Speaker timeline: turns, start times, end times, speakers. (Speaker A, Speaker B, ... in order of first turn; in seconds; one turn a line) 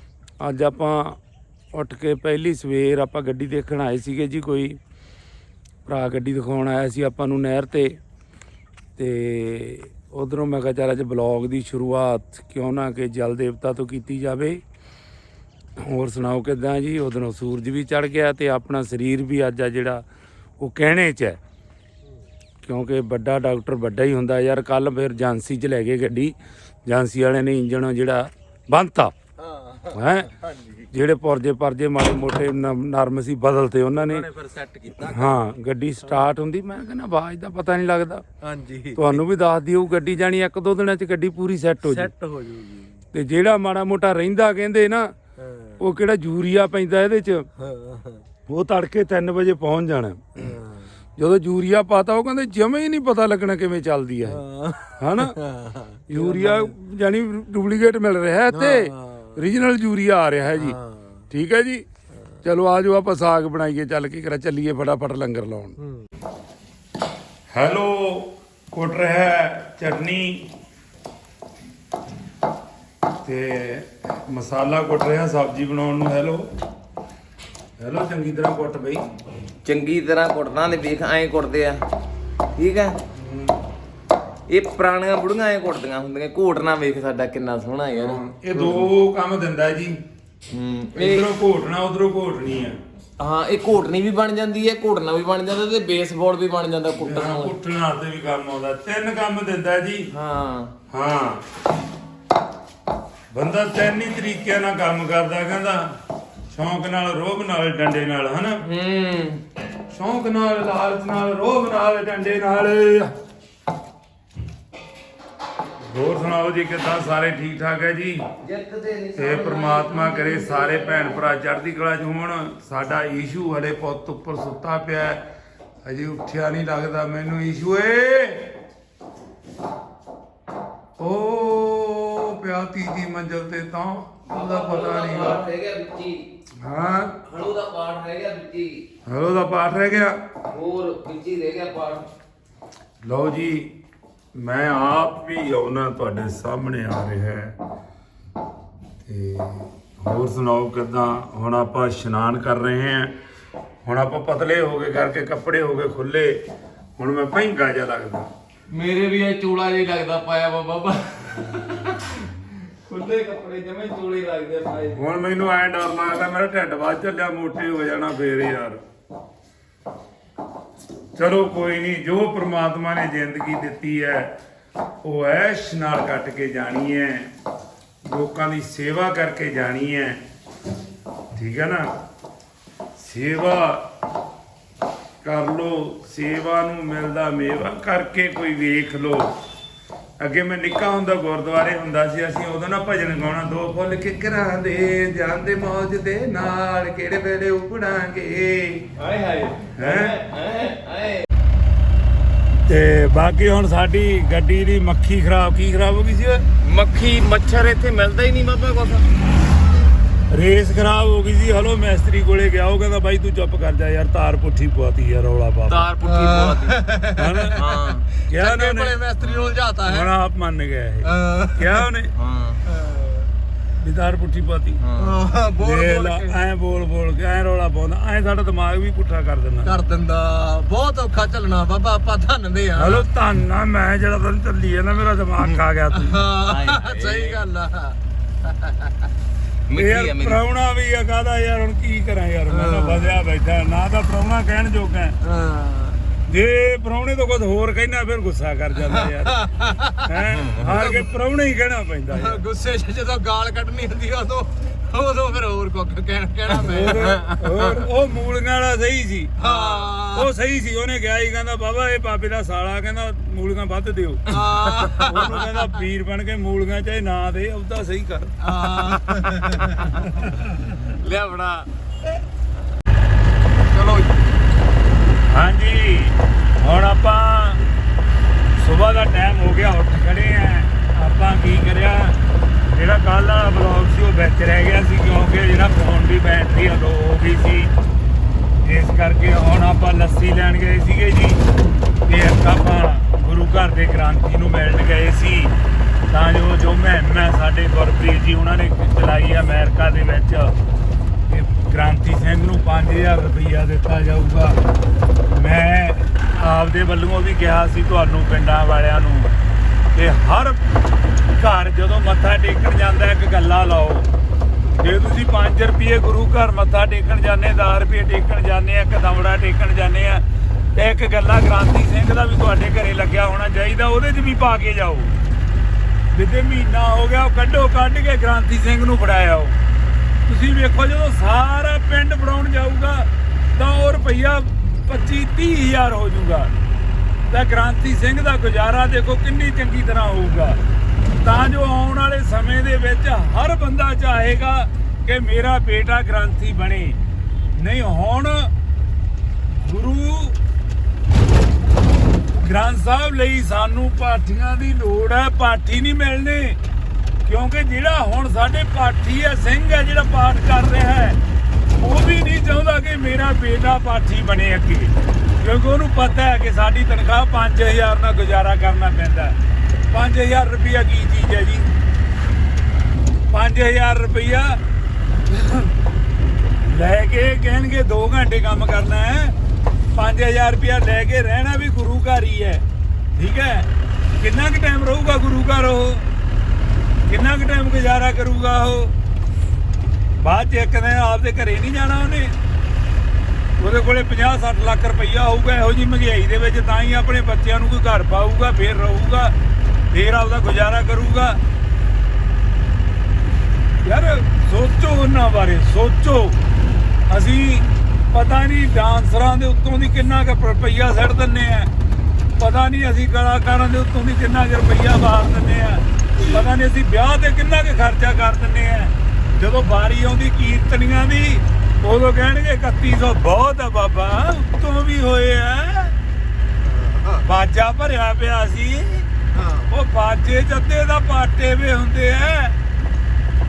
Speaker A: 0.4-1.2
Speaker A: 1.7-4.8
Speaker A: 5.9-8.0
Speaker A: 9.0-14.6
Speaker A: 15.8-20.1
Speaker A: 20.6-21.4
Speaker A: 22.6-26.4
Speaker A: 26.9-29.1
Speaker B: 29.4-30.0
Speaker A: 29.9-30.3
Speaker A: 30.9-34.3
Speaker C: 34.1-35.2
Speaker A: 35.1-38.2
Speaker B: 38.4-39.2
Speaker A: 39.0-42.1
Speaker B: 41.9-42.9
Speaker A: 43.1-45.1
Speaker B: 45.4-45.8
Speaker A: 45.8-47.5
Speaker B: 47.6-48.2
Speaker A: 48.5-50.4
Speaker A: 51.2-54.4
Speaker B: 54.3-56.7
Speaker A: 55.0-55.3
Speaker A: 56.1-60.8
Speaker B: 58.5-59.3
Speaker B: 60.6-61.1
Speaker A: 61.3-61.9
Speaker A: 62.4-65.8
Speaker A: 67.5-70.5
Speaker A: 73.2-76.5
Speaker A: 77.8-79.0
Speaker C: 79.7-81.8
Speaker C: 82.6-83.0
Speaker A: 83.1-83.5
Speaker C: 84.5-88.9
Speaker A: 88.0-90.0
Speaker C: 90.5-91.3
Speaker A: 91.0-92.8
Speaker C: 93.2-97.5
Speaker A: 97.0-100.1
Speaker C: 100.1-100.7
Speaker A: 100.9-101.4
Speaker A: 103.3-105.9
Speaker A: 106.5-108.6
Speaker C: 108.6-109.4
Speaker A: 109.9-113.1
Speaker A: 115.8-118.2
Speaker C: 118.4-121.3
Speaker A: 119.2-125.2
Speaker A: 125.8-128.5
Speaker A: 131.0-135.4
Speaker C: 134.3-136.2
Speaker A: 136.6-137.2
Speaker C: 137.3-138.8
Speaker A: 139.1-140.2
Speaker C: 140.5-142.1
Speaker A: 143.0-143.7
Speaker A: 144.3-147.5
Speaker A: 149.1-153.1
Speaker A: 153.8-156.4
Speaker A: 157.0-158.3
Speaker C: 158.7-165.0
Speaker A: 164.9-168.8
Speaker A: 171.2-174.3
Speaker A: 175.0-177.3
Speaker A: 178.0-180.2
Speaker A: 181.3-181.9
Speaker A: 183.0-183.8
Speaker A: 185.2-189.3
Speaker A: 190.2-198.9
Speaker C: 199.0-201.3
Speaker A: 199.8-200.2
Speaker A: 202.7-206.4
Speaker C: 206.6-209.1
Speaker A: 210.3-215.9
Speaker C: 215.7-216.8
Speaker B: 216.0-217.8
Speaker A: 217.2-217.6
Speaker C: 217.6-218.1
Speaker A: 218.3-219.0
Speaker B: 218.3-220.1
Speaker C: 219.2-219.6
Speaker A: 219.9-222.1
Speaker B: 221.1-221.8
Speaker C: 222.2-222.6
Speaker B: 222.7-223.3
Speaker A: 223.8-224.8
Speaker C: 224.8-225.2
Speaker B: 225.0-226.4
Speaker A: 225.6-229.8
Speaker B: 229.7-233.0
Speaker A: 232.8-236.2
Speaker B: 236.0-238.0
Speaker C: 236.5-237.4
Speaker C: 239.7-240.4
Speaker A: 239.7-245.2
Speaker B: 242.5-243.2
Speaker B: 245.2-246.0
Speaker A: 246.3-252.4
Speaker B: 248.9-250.0
Speaker C: 250.3-250.7
Speaker B: 250.7-251.1
Speaker B: 252.1-257.2
Speaker C: 256.5-257.4
Speaker A: 256.7-259.4
Speaker B: 259.4-260.3
Speaker C: 259.4-260.0
Speaker A: 260.0-264.3
Speaker B: 264.3-265.2
Speaker C: 264.3-265.3
Speaker A: 264.9-268.4
Speaker B: 268.4-270.0
Speaker C: 270.6-271.7
Speaker B: 273.7-274.1
Speaker A: 275.3-277.6
Speaker A: 278.6-282.2
Speaker A: 282.7-287.7
Speaker A: 288.6-291.4
Speaker A: 292.1-295.5
Speaker A: 296.1-300.5
Speaker A: 301.3-304.6
Speaker A: 305.3-309.3
Speaker A: 309.9-310.6
Speaker A: 311.4-314.1
Speaker A: 314.8-320.2
Speaker A: 320.8-325.1
Speaker A: 326.1-329.6
Speaker A: 330.3-336.5
Speaker A: 337.3-340.6
Speaker A: 341.1-347.0
Speaker A: 347.6-348.5
Speaker A: 349.5-350.4
Speaker A: 352.4-356.6
Speaker A: 357.2-361.2
Speaker A: 361.8-369.4
Speaker A: 369.9-371.7
Speaker A: 373.3-374.6
Speaker A: 375.3-375.7
Speaker A: 376.6-379.4
Speaker A: 379.9-382.6
Speaker A: 383.2-386.1
Speaker A: 387.1-388.9
Speaker A: 390.2-392.3
Speaker A: 393.6-399.3
Speaker A: 399.9-401.4
Speaker A: 403.8-406.4
Speaker A: 407.1-411.7
Speaker A: 412.4-426.0
Speaker B: 426.6-427.3
Speaker A: 427.2-429.1
Speaker B: 429.3-429.7
Speaker A: 429.7-432.6